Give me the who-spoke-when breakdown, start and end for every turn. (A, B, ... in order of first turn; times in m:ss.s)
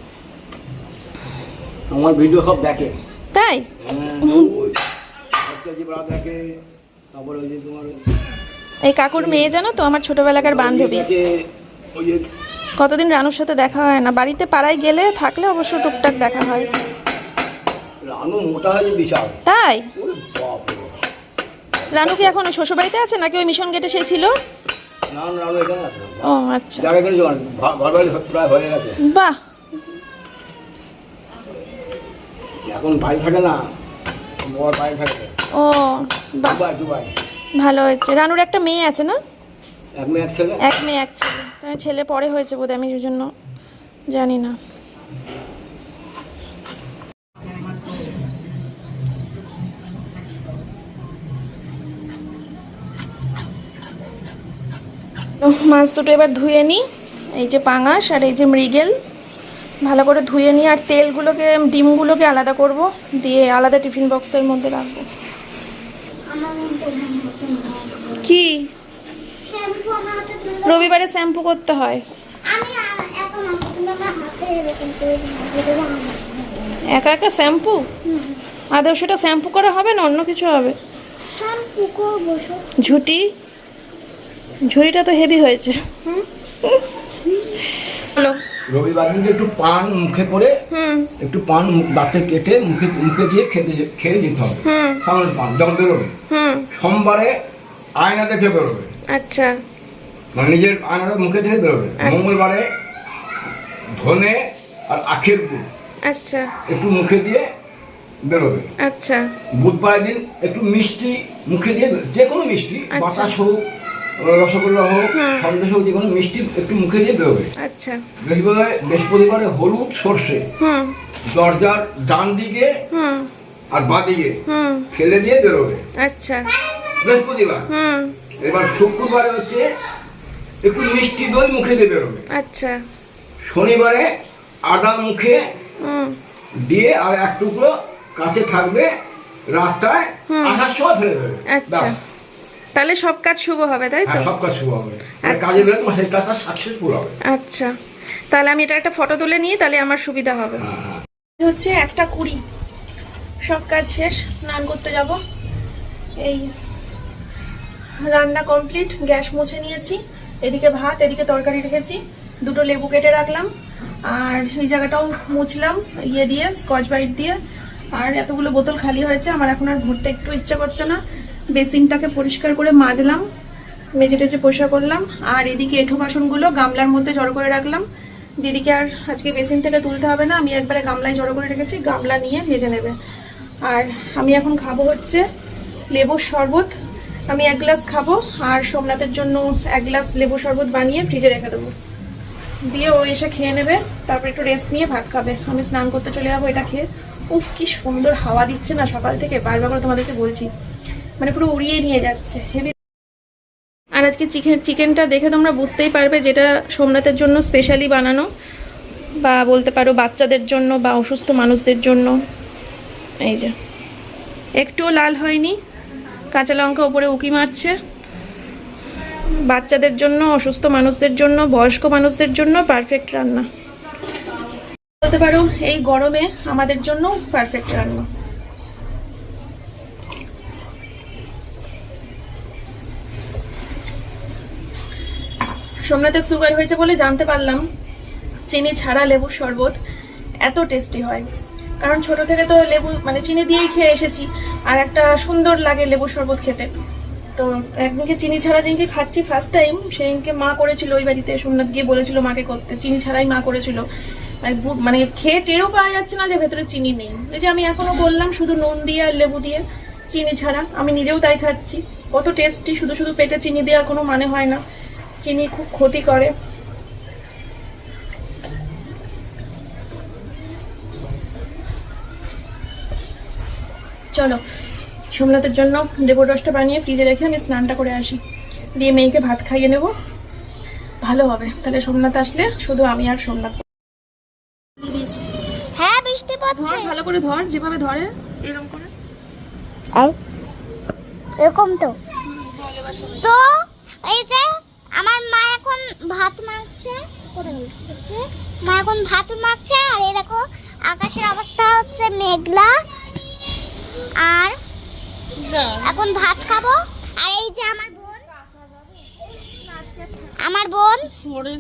0:01.9-0:03.0 A
0:03.3-0:03.7 B
0:03.8-0:04.8 A
0:04.2-0:04.5 B
0:05.4-0:06.6 A
0:07.1-0:08.0 A
0:08.8-0:11.1 B
0:09.2-0:09.6 A
0:10.4-0:11.3 A
0:12.0-0:12.2 A
0:12.8-0:16.7 B
0:18.0-0:19.4 A
0:19.4-0:19.9 B
0:20.0-0:21.0 A
0:21.9-0:24.3 B
0:21.9-0:22.3 A
0:25.1-0:29.0 A
0:26.2-0:26.9 B
0:29.0-0:29.4 B
0:32.7-0:33.6 A
0:34.4-0:35.3 A
0:35.5-0:36.6 B
0:36.4-0:37.1 A
0:37.6-0:39.2 B
0:40.0-0:40.6 A
0:40.6-0:43.3 B
0:44.1-0:44.6 B
0:55.4-0:56.8 B
0:57.4-0:58.9 B
0:59.8-1:05.0 B
1:06.3-1:08.3 C
1:08.2-1:08.7 B
1:09.5-1:11.0 C
1:10.7-1:12.0 B
1:12.5-1:16.8 C
1:16.9-1:17.9 B
1:18.0-1:18.4 C
1:18.7-1:20.8 B
1:21.3-1:22.6 C
1:22.8-1:23.3 B
1:24.7-1:25.9 B
1:27.9-1:28.4 B
1:28.7-1:30.5 A
1:30.7-1:31.1 B
1:31.2-1:36.2 A
1:34.6-1:35.0 B
1:36.3-1:36.7 B
1:36.8-1:37.4 A
1:38.0-1:38.9 A
1:39.1-1:39.6 B
1:40.3-1:42.7 A
1:42.0-1:42.4 B
1:44.0-1:45.7 A
1:46.1-1:46.5 B
1:46.7-1:47.4 A
1:48.2-1:48.7 A
1:48.8-1:49.3 B
1:49.6-1:53.6 A
1:52.9-1:53.4 B
1:54.2-1:57.5 A
1:55.1-1:55.5 B
1:57.6-1:58.0 B
1:58.2-2:00.5 A
2:00.6-2:01.0 B
2:01.3-2:02.7 A
2:02.9-2:03.3 B
2:03.7-2:04.4 A
2:04.5-2:04.9 B
2:04.9-2:05.8 A
2:06.0-2:06.5 B
2:07.0-2:07.7 A
2:07.7-2:08.2 B
2:08.4-2:09.7 A
2:10.6-2:12.3 A
2:12.3-2:12.8 B
2:13.4-2:14.1 A
2:14.7-2:15.4 A
2:15.8-2:16.2 B
2:16.7-2:18.9 A
2:19.5-2:21.9 A
2:20.3-2:20.6 B
2:21.5-2:22.0 B
2:22.8-2:24.3 B
2:24.1-2:27.2 A
2:25.2-2:25.7 B
2:27.3-2:27.7 B
2:28.3-2:30.6 B
2:30.6-2:31.0 A
2:31.4-2:32.4 B
2:33.5-2:35.2 B
2:36.2-2:36.5 B
2:38.0-2:43.5 B
2:44.1-2:47.4 B
2:48.0-2:51.0 B
2:51.5-2:53.2 B
2:54.0-2:57.8 B
2:58.4-3:03.0 B
3:03.7-3:05.2 B
3:05.9-3:06.7 B
3:07.3-3:11.7 B
3:12.7-3:20.5 B
3:21.2-3:22.8 B
3:24.0-3:28.3 B
3:29.2-3:32.2 B
3:33.2-3:33.5 B
3:34.6-3:35.6 B
3:36.3-3:37.8 B
3:39.5-3:43.5 B
3:45.0-3:48.1 B
3:55.9-3:57.6 B
3:58.5-3:59.8 B
4:00.4-4:01.3 B
4:01.8-4:06.7 B
4:07.4-4:13.8 B
4:14.4-4:24.6 B
4:25.2-4:26.3 B
4:34.1-4:34.4 B
4:35.1-4:38.2 B
4:38.8-4:39.9 B
4:41.0-4:43.6 B
4:44.8-4:45.2 B
4:45.8-4:47.0 C
4:46.5-4:48.9 B
4:51.4-4:52.0 C
4:52.2-4:53.4 B
4:54.0-4:54.5 C
4:55.0-5:02.8 C
5:04.2-5:04.6 C
5:05.7-5:08.3 C
5:10.4-5:11.2 C